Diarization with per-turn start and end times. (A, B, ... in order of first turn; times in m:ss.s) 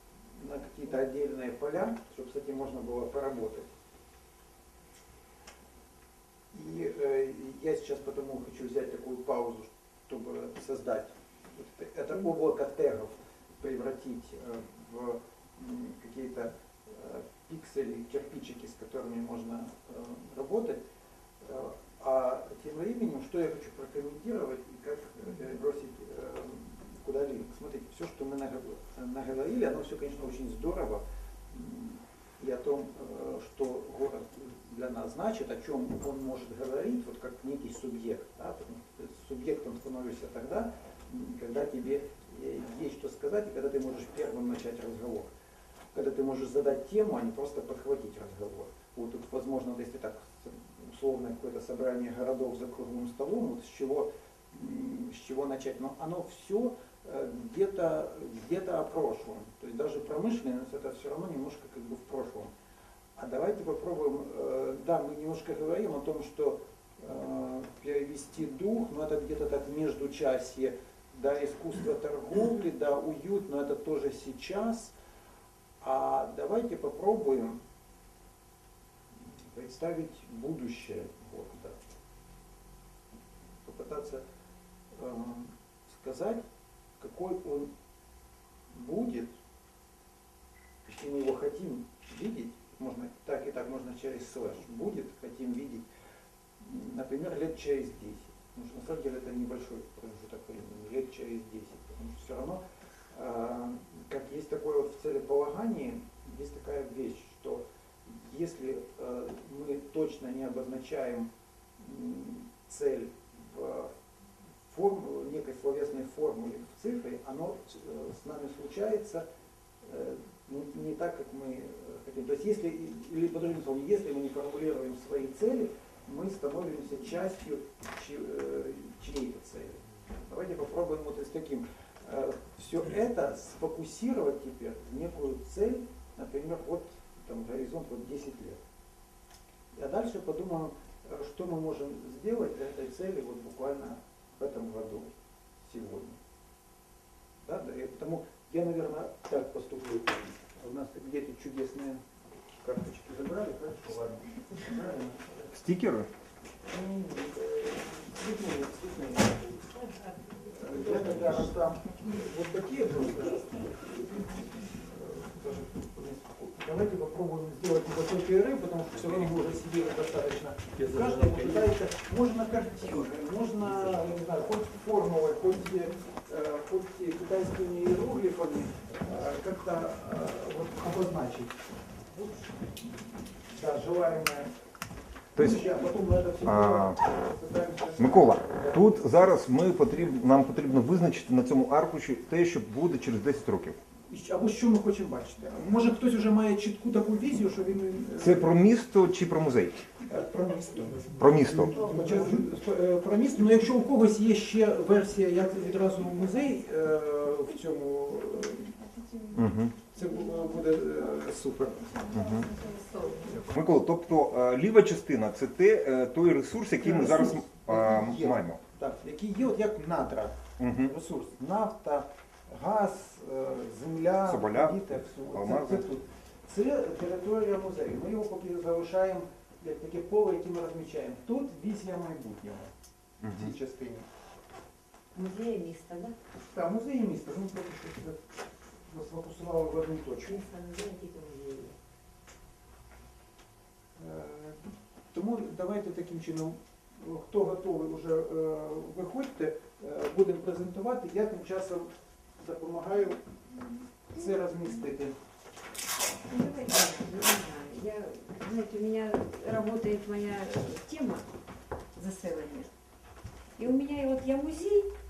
0:00.4-0:03.7 A
0:06.5-0:20.8 A
0:21.4-0:45.3 A
0:45.9-1:02.5 A
1:03.2-1:14.9 A
1:15.8-1:17.6 A
1:19.2-1:21.8 A
1:23.6-1:24.2 A
1:24.9-1:26.4 A
1:27.0-1:27.7 A
1:28.7-1:29.3 A
1:30.8-1:35.9 A
1:36.6-1:42.6 A
1:43.1-1:53.9 A
1:54.7-1:59.2 A
1:59.8-2:18.6 A
2:19.7-2:25.1 A
2:25.6-2:26.2 A
2:27.4-2:32.0 A
2:32.6-2:35.5 A
2:35.5-2:36.1 B
2:36.7-2:39.7 A
2:40.5-3:01.5 A
3:03.5-3:04.5 A
3:05.4-3:05.7 B
3:05.4-3:09.2 A
3:06.4-3:07.0 B
3:08.0-3:13.8 B
3:14.1-3:18.6 A
3:18.2-3:19.9 B
3:20.1-3:28.9 A
3:21.2-3:21.9 B
3:29.4-3:29.8 B
3:29.9-3:32.0 A
3:32.1-3:32.5 B
3:33.2-3:33.5 A
3:33.5-3:38.6 B
3:36.8-3:52.7 A
3:40.6-3:40.9 B
3:44.2-3:45.9 B
3:53.2-3:53.5 B
3:53.3-3:54.1 A
3:55.2-3:56.2 C
3:56.4-3:58.3 A
3:58.9-4:00.4 A
4:00.3-4:01.8 C
4:04.0-4:13.2 A
4:14.1-4:15.1 A
4:16.3-4:21.3 C
4:22.0-4:22.7 C
4:23.6-4:24.9 C